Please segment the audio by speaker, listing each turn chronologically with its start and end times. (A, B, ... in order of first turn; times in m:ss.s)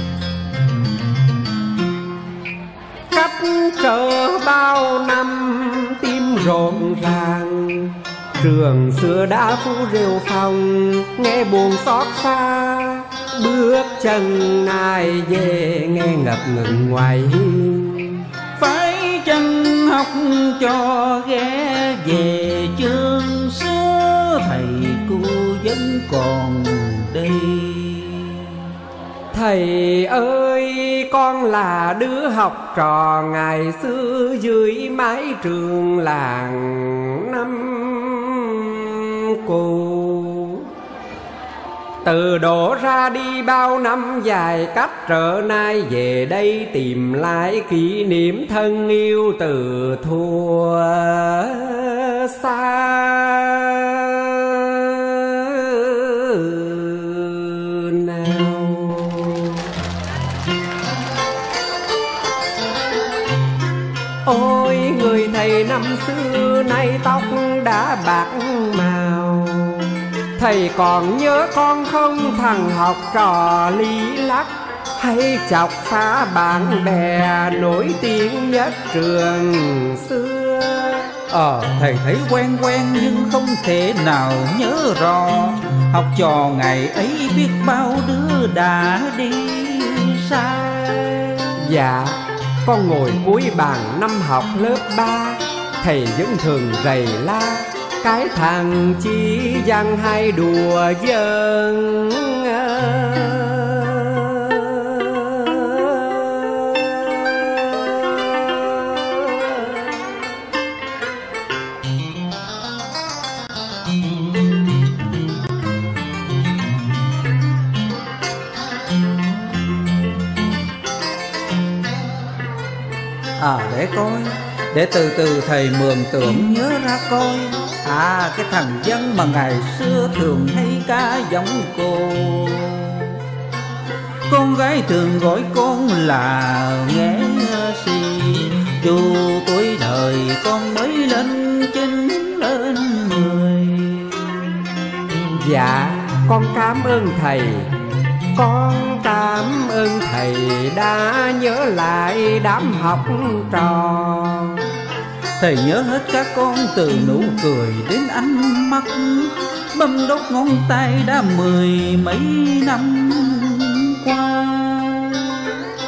0:03.1-0:18.2 A
0:18.6-0:28.7 B
0:29.3-0:40.7 A
0:42.0-0:59.7 A
1:04.2-1:21.2 A
1:21.3-1:31.5 B
1:31.6-1:50.2 A
2:03.4-2:13.2 B
2:14.3-2:24.2 B
2:25.3-2:27.7 A
2:28.3-2:34.6 A
2:35.4-2:45.3 B